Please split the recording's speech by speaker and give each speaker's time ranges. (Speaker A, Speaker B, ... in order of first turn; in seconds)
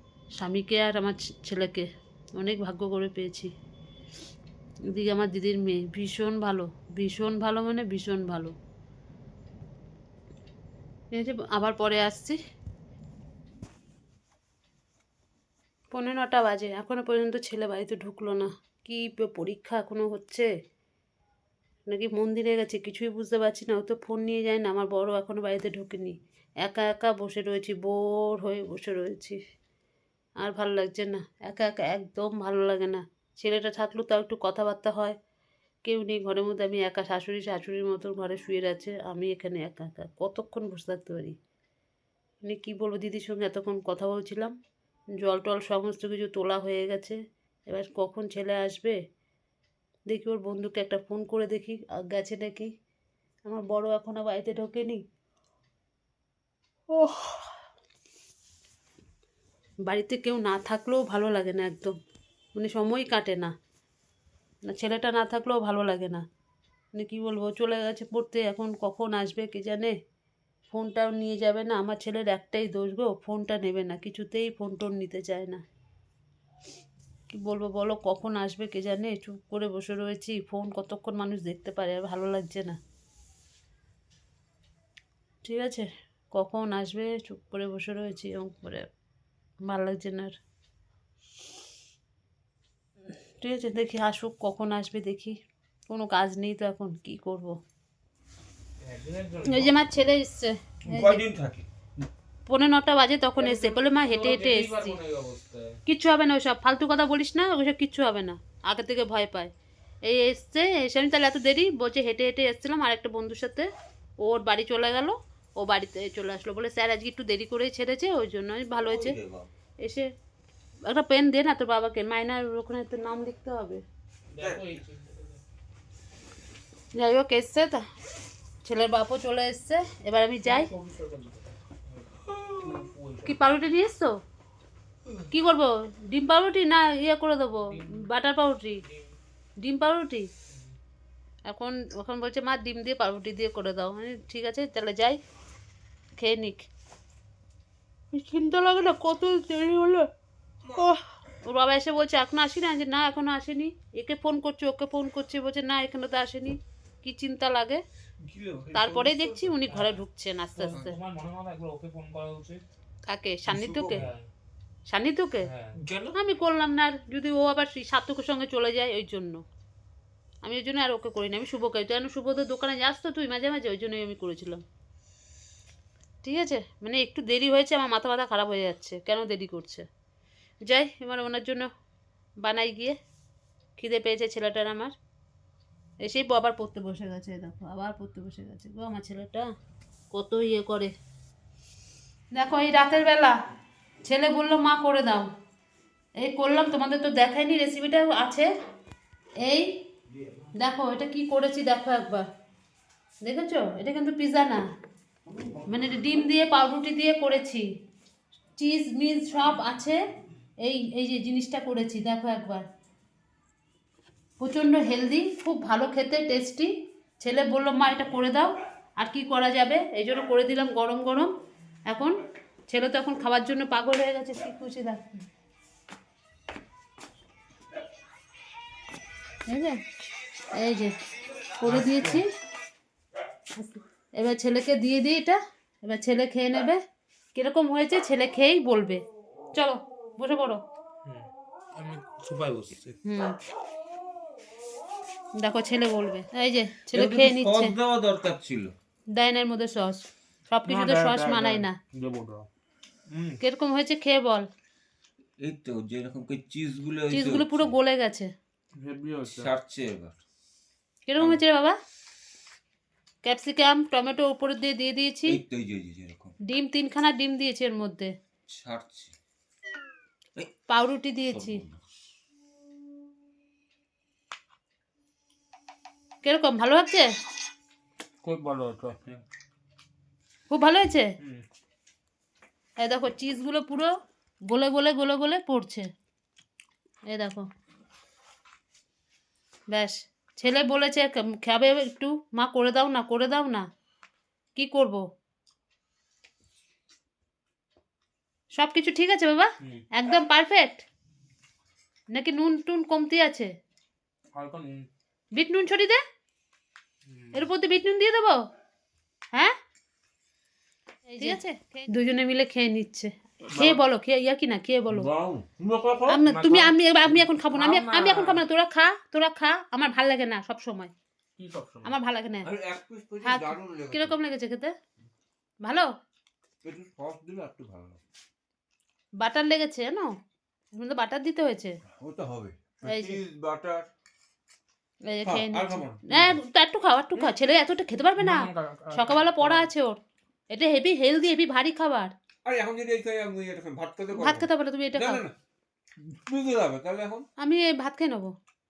Speaker A: 0.4-1.9, 2.4-3.5, 4.9-8.5, 11.1-12.4, 15.9-20.5, 21.9-29.4, 30.4-35.1, 35.8-41.4, 42.4-44.5, 45.2-47.2, 47.7-49.0, 50.1-52.7, 53.5-55.0, 56.9-57.5, 59.9-62.0, 62.5-63.5, 64.7-66.2, 66.9-69.9, 70.7-75.6, 77.3-82.8, 85.4-88.9, 89.6-90.3, 93.4-95.3, 95.9-97.6, 99.4-101.2, 102.5-105.0, 105.8-109.5, 110.0-113.7, 114.2-119.2, 119.8-120.1, 120.9-123.8, 126.9-127.8, 128.6-130.7, 133.2-134.1, 135.3-138.8, 139.6-140.3, 141.4-145.2, 146.1-146.7, 148.1-150.1, 150.8-157.8, 158.7-161.0, 163.1-164.1, 164.9-165.5, 166.1-169.4, 170.4-174.6, 176.2-179.8, 180.6-181.7, 182.4-182.9, 183.8-184.9, 186.0-189.5, 190.1-190.9, 192.3-193.3, 194.0-195.3, 196.2-198.5, 199.4-199.7, 200.6-202.3, 203.2-204.6, 205.7-207.6, 208.6-210.0, 210.6-212.6, 214.4-221.3, 221.9-222.2, 222.7-225.2, 229.5-229.8, 230.5-230.9, 231.6-232.2, 233.6-236.8, 237.3-239.0, 239.5-240.6, 243.0-243.3, 245.4-247.8, 249.1-251.8, 253.4-254.5, 257.1-258.3, 261.1-261.8, 263.2-265.4, 266.5-268.1, 270.7-271.6, 276.2-277.1, 280.5-281.1, 282.8-283.9, 284.5-285.9, 287.1-287.5, 289.7-293.7, 294.5-295.0, 298.5-300.8, 302.1-303.5, 305.3-306.0, 307.3-308.4, 311.2-315.1, 316.1-320.9, 321.8-322.5, 323.2-324.7, 325.6-325.9, 329.2-330.1, 330.7-331.8, 332.8-333.2, 335.1-340.0, 340.5-342.1, 344.1-345.2, 347.4-348.3
Speaker B: 98.8-99.8, 103.3-105.8, 124.3-125.4, 130.4-133.3, 137.7-138.0, 159.7-160.0, 160.6-162.6, 163.5-164.3, 165.4-165.8, 231.6-232.2, 241.0-242.9, 250.6-252.5, 253.1-253.4, 258.7-259.5, 278.2-279.2, 304.3-304.9, 307.1-307.5, 313.5-313.8, 316.2-318.4, 321.4-321.9, 338.2-339.7
Speaker C: 100.8-101.7, 118.8-119.5, 124.4-124.8, 158.2-159.6, 165.7-166.2, 246.9-248.7, 255.4-257.7, 259.3-260.2, 265.2-266.4, 268.5-269.1, 271.3-271.8, 314.9-316.2, 322.4-324.2, 326.6-328.0, 331.9-333.9, 335.2-336.4, 342.4-345.3, 346.0-347.3